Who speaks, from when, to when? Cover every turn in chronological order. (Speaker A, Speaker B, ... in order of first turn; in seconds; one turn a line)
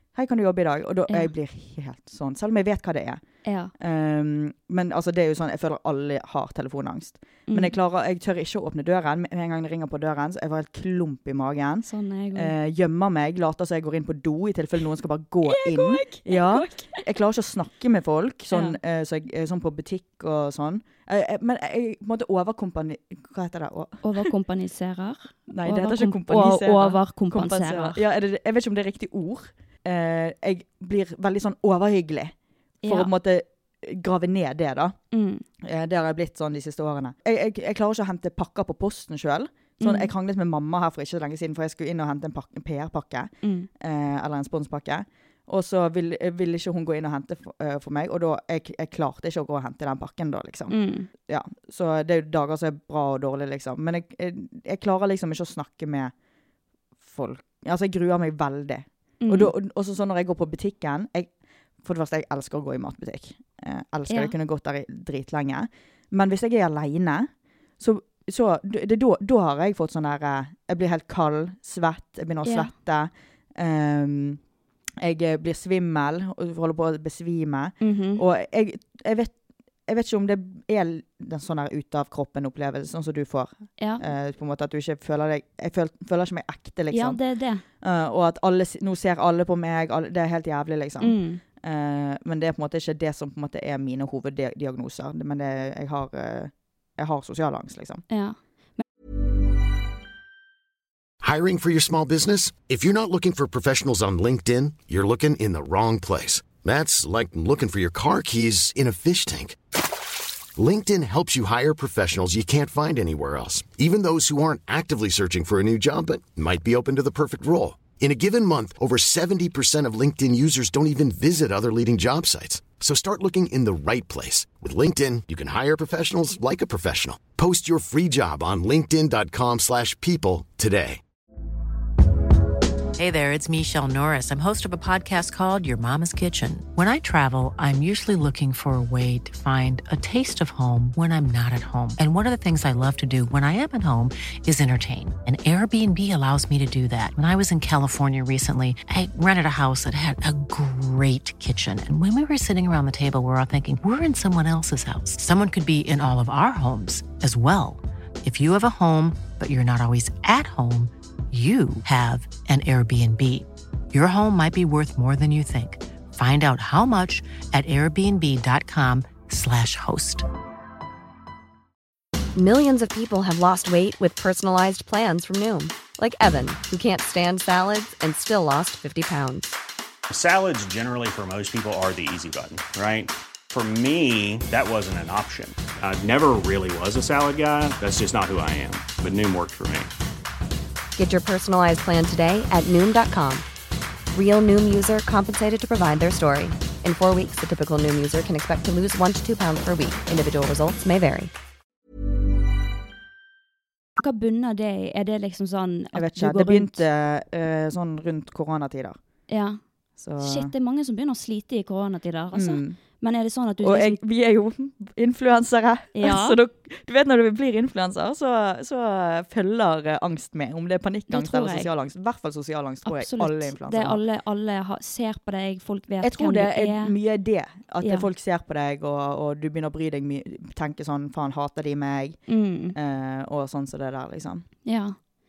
Speaker A: 0.1-3.2
Speaker B: 3.4-3.7
Speaker A: 3.8-24.3
Speaker B: 7.5-7.8
Speaker B: 11.9-12.5
Speaker B: 15.4-17.0
Speaker B: 18.5-18.8
Speaker B: 24.0-28.0
Speaker A: 25.5-35.0
Speaker B: 32.8-33.1
Speaker B: 35.1-35.4
Speaker A: 35.6-56.1
Speaker B: 39.8-40.1
Speaker B: 43.4-43.7
Speaker B: 50.7-51.1
Speaker A: 57.0-74.4
Speaker B: 59.2-59.5
Speaker B: 64.1-64.3
Speaker B: 72.5-72.7
Speaker A: 75.0-87.2
Speaker B: 77.8-78.2
Speaker B: 83.8-84.0
Speaker B: 86.9-87.6
Speaker A: 87.8-98.0
Speaker B: 91.0-91.4
Speaker B: 98.1-98.8
Speaker C: 101.2-109.6
Speaker C: 110.6-131.0
Speaker D: 133.0-170.3
Speaker E: 172.3-179.6
Speaker F: 180.1-189.9
Speaker E: 191.0-193.5
Speaker E: 194.1-201.3
Speaker B: 204.0-206.8
Speaker A: 205.9-209.0
Speaker B: 209.3-209.6
Speaker A: 210.0-210.5
Speaker B: 210.2-214.0
Speaker A: 212.3-212.8
Speaker A: 213.6-224.0
Speaker B: 215.9-216.4
Speaker B: 221.1-221.7
Speaker B: 222.9-227.0
Speaker A: 226.0-234.5
Speaker B: 227.8-228.1
Speaker B: 232.3-232.8
Speaker B: 234.7-235.0